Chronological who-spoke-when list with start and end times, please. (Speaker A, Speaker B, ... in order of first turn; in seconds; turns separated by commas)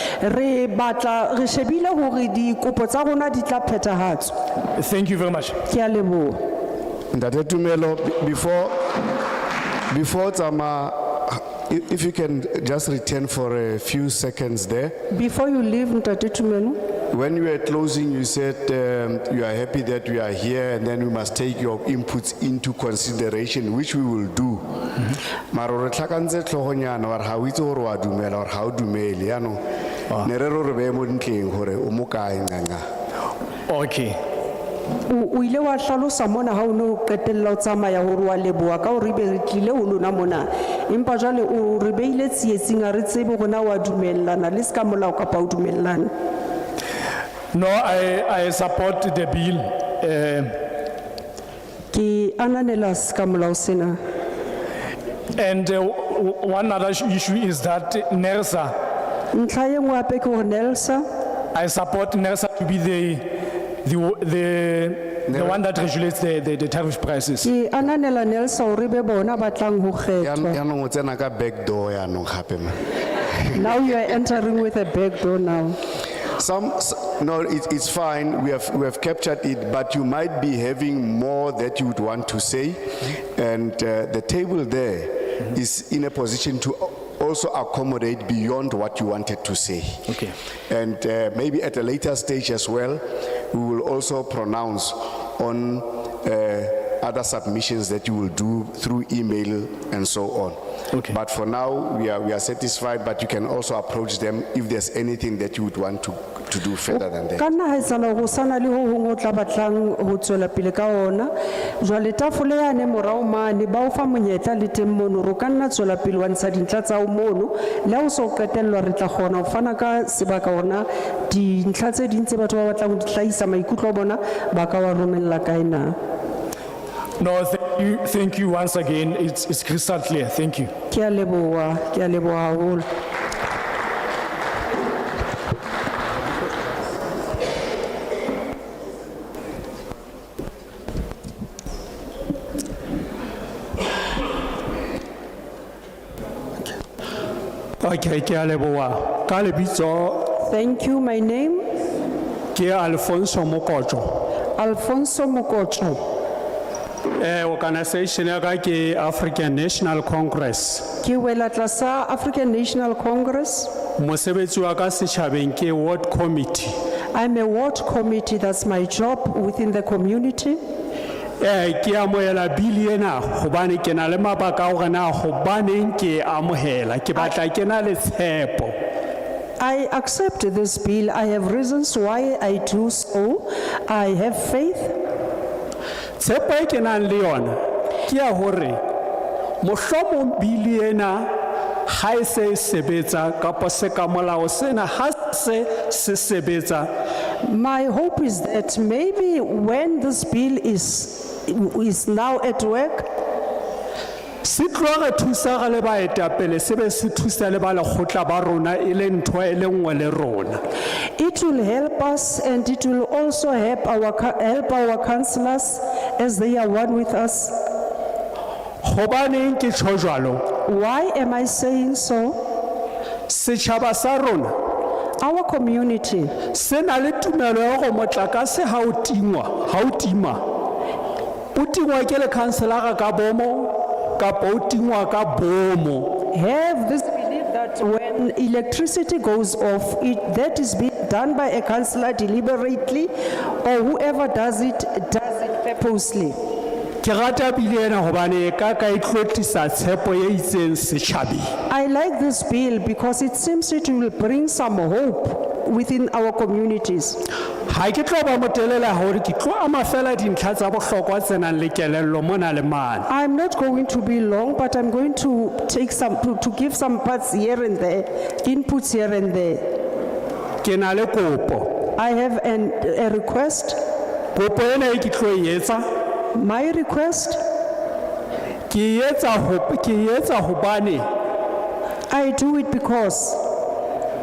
Speaker A: 0.2-4.3, Speaker B: 4.8-5.6, Speaker A: 5.7-6.4, Speaker C: 7.1-8.8, Speaker C: 9.9-14.9, Speaker A: 15.1-16.8, Speaker C: 17.1-24.7, Speaker C: 25.5-32.8, Speaker B: 33.7-34.2, Speaker A: 35.1-46.1, Speaker B: 47.5-50.5, Speaker A: 51.9-54.0, Speaker B: 55.4-58.7, Speaker A: 59.3-61.0, Speaker B: 61.5-63.3, Speaker B: 63.8-67.5, Speaker C: 65.3-65.6, Speaker A: 67.4-70.6, Speaker C: 70.2-72.8, Speaker A: 73.5-75.8, Speaker C: 76.4-82.8, Speaker C: 83.3-90.2, Speaker C: 90.7-107.4, Speaker A: 107.4-126.0, Speaker B: 127.2-130.7, Speaker A: 130.9-132.9, Speaker D: 147.8-150.3, Speaker A: 150.3-151.7, Speaker D: 152.5-154.2, Speaker A: 154.6-156.0, Speaker D: 157.2-160.9, Speaker A: 161.0-163.7, Speaker D: 164.0-166.8, Speaker A: 167.1-170.6, Speaker D: 171.4-178.8, Speaker A: 179.6-185.0, Speaker D: 186.2-188.8, Speaker D: 189.6-191.3, Speaker D: 191.9-196.9, Speaker A: 197.4-203.1, Speaker D: 204.4-210.6, Speaker A: 211.2-217.6, Speaker D: 218.8-220.5, Speaker A: 220.6-222.4, Speaker D: 223.3-224.6, Speaker A: 225.2-226.4, Speaker D: 226.5-230.4, Speaker D: 231.6-236.2, Speaker A: 236.3-243.1, Speaker A: 243.6-246.4, Speaker D: 247.0-251.5, Speaker A: 251.7-257.2, Speaker D: 257.7-263.1, Speaker A: 263.1-269.7, Speaker D: 270.6-271.8, Speaker A: 271.9-273.8, Speaker D: 274.3-275.9, Speaker A: 276.3-277.4, Speaker D: 278.7-281.1, Speaker A: 282.1-283.4